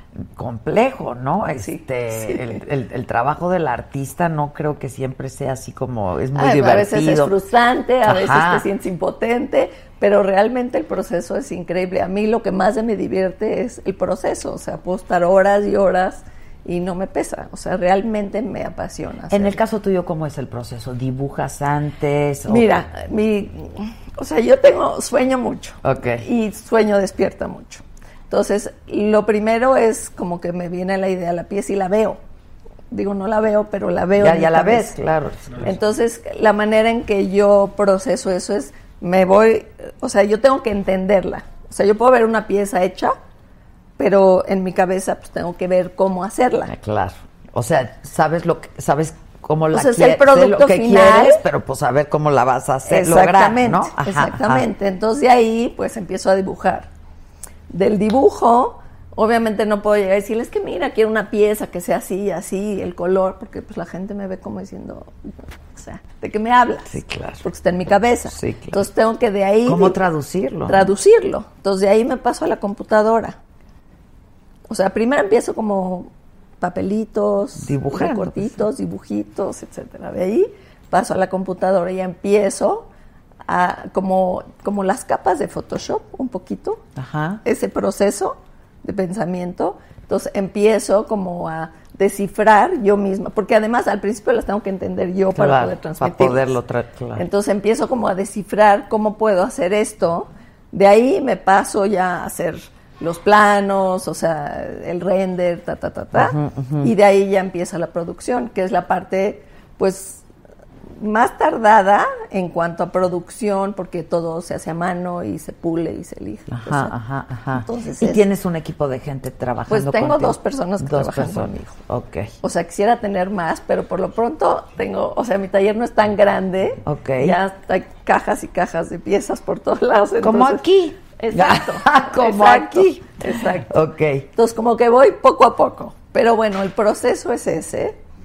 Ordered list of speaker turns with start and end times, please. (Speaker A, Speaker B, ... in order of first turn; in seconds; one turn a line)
Speaker A: 0.3-7.3
Speaker B: 1.6-2.6
Speaker B: 6.3-19.6
Speaker A: 8.1-8.7
Speaker A: 19.3-22.8
Speaker B: 22.5-32.2
Speaker A: 25.8-26.3
Speaker B: 32.9-35.0
Speaker A: 34.2-35.7
Speaker B: 35.6-43.2
Speaker B: 44.0-46.7
Speaker A: 46.7-54.7
Speaker B: 49.7-51.4
Speaker B: 52.9-56.9
Speaker B: 57.7-65.1
Speaker B: 65.7-70.0
Speaker A: 66.9-67.5
Speaker A: 68.3-68.8
Speaker A: 69.7-70.9
Speaker B: 70.7-73.4
Speaker B: 74.7-82.9
Speaker A: 77.6-78.5
Speaker B: 83.5-86.8
Speaker A: 87.0-87.4
Speaker B: 87.5-96.5
Speaker A: 95.3-97.2
Speaker B: 97.2-110.2
Speaker A: 106.1-106.9
Speaker B: 111.0-116.9
Speaker A: 116.5-122.3
Speaker B: 117.5-118.2
Speaker B: 119.7-121.8
Speaker B: 122.4-130.6
Speaker A: 126.8-127.4
Speaker A: 130.2-134.3
Speaker B: 131.2-133.7
Speaker B: 134.4-138.0